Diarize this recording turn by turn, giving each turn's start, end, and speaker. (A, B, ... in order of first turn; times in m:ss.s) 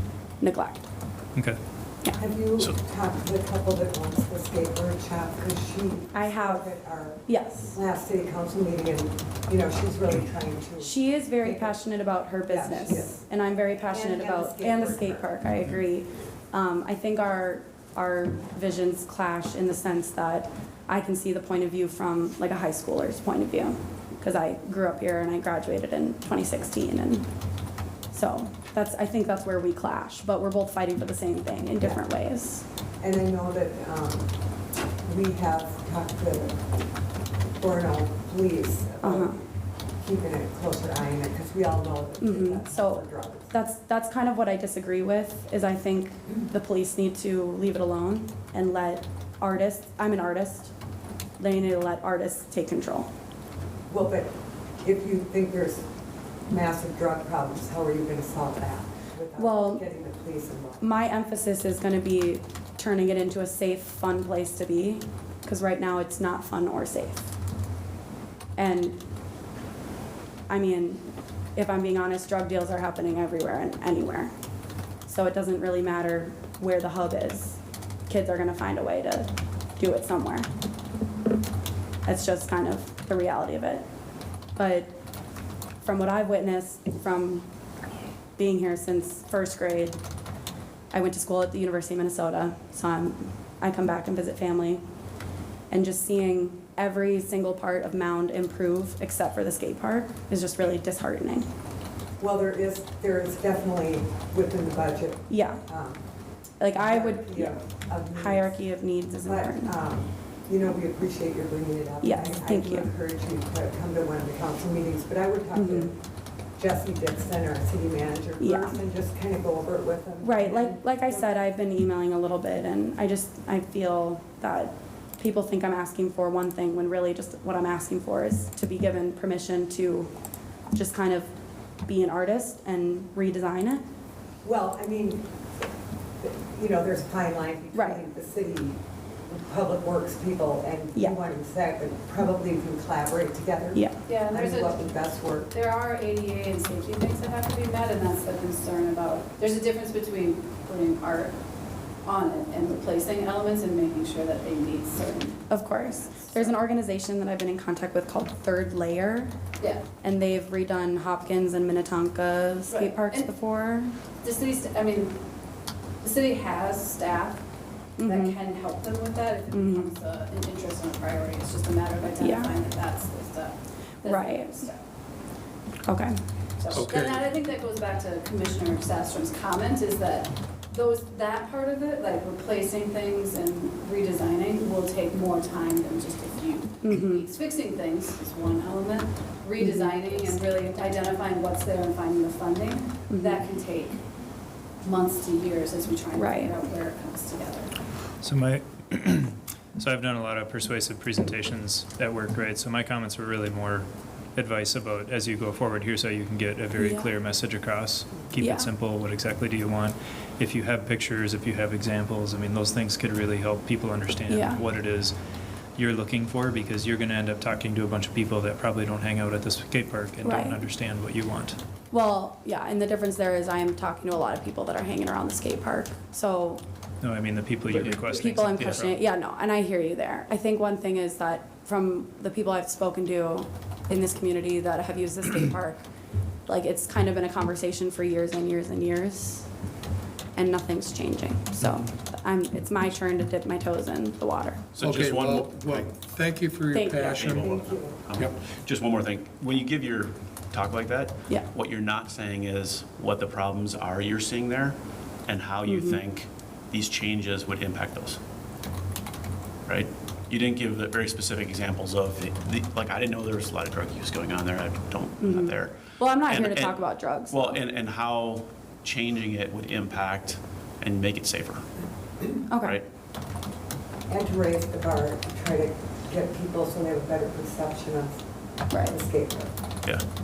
0:00.4-0:00.9 A
0:02.2-0:11.8 B
0:06.1-0:06.7 A
0:07.3-0:07.8 A
0:10.8-0:27.3 A
0:12.4-0:13.3 B
0:13.8-0:15.3 B
0:28.1-0:32.6 A
0:33.0-0:34.3 B
0:35.0-0:36.7 B
0:37.6-0:39.4 B
0:39.0-0:39.4 A
0:40.0-0:43.5 B
0:42.2-0:50.7 A
0:51.4-0:53.1 A
0:53.9-0:55.8 B
0:56.5-1:00.8 B
0:59.4-0:59.8 A
1:00.8-1:07.3 A
1:08.6-1:09.0 A
1:10.5-1:11.0 A
1:11.6-1:14.3 A
1:15.0-1:20.5 A
1:22.0-1:23.8 A
1:24.6-1:24.9 A
1:25.8-1:27.5 A
1:28.4-1:30.0 A
1:30.9-1:34.8 A
1:35.7-1:41.4 A
1:42.2-1:46.0 B
1:45.3-1:45.6 A
1:46.6-1:49.7 A
1:46.7-1:48.6 B
1:49.2-1:55.9 B
1:52.0-1:52.9 A
1:55.6-1:55.9 A
1:56.6-2:01.3 B
1:58.4-1:58.8 A
2:00.2-2:10.1 A
2:10.7-2:11.3 A
2:11.8-2:13.8 A
2:14.4-2:15.3 B
2:16.2-2:25.5 B
2:17.7-2:18.0 A
2:24.1-2:24.8 C
2:25.5-2:31.4 C
2:32.0-2:36.6 C
2:35.5-2:39.3 A
2:39.6-2:39.8 C
2:40.0-2:43.9 A
2:42.7-2:43.3 C
2:44.2-2:45.2 C
2:46.0-2:47.4 C
2:48.0-2:48.4 A
2:48.0-2:54.8 C
2:49.5-2:49.9 A
2:52.2-2:52.5 A
2:54.0-2:54.5 A
2:55.8-2:56.2 A
2:56.6-3:14.0 C
2:56.7-2:57.2 D
3:06.8-3:07.2 A
3:09.6-3:10.4 A
3:13.1-3:13.4 A
3:14.8-3:17.7 C
3:16.1-3:16.5 A
3:18.2-3:35.1 E
3:26.8-3:27.1 A
3:28.4-3:28.7 A
3:34.3-3:34.6 A
3:35.8-3:41.6 E
3:40.2-3:40.6 A
3:41.9-3:46.6 A
3:47.0-3:49.0 E
3:48.0-3:55.8 A
3:56.5-3:59.5 A
4:00.4-4:04.7 A
4:04.7-4:05.9 F
4:04.8-4:07.5 D
4:06.7-4:07.3 A
4:06.9-4:18.2 F
4:07.4-4:08.0 B
4:15.6-4:16.0 A
4:19.6-4:31.6 F
4:25.2-4:27.6 A
4:32.5-4:32.8 A
4:32.6-4:32.8 F
4:34.1-4:38.2 B
4:38.7-4:39.0 A
4:38.7-4:39.5 B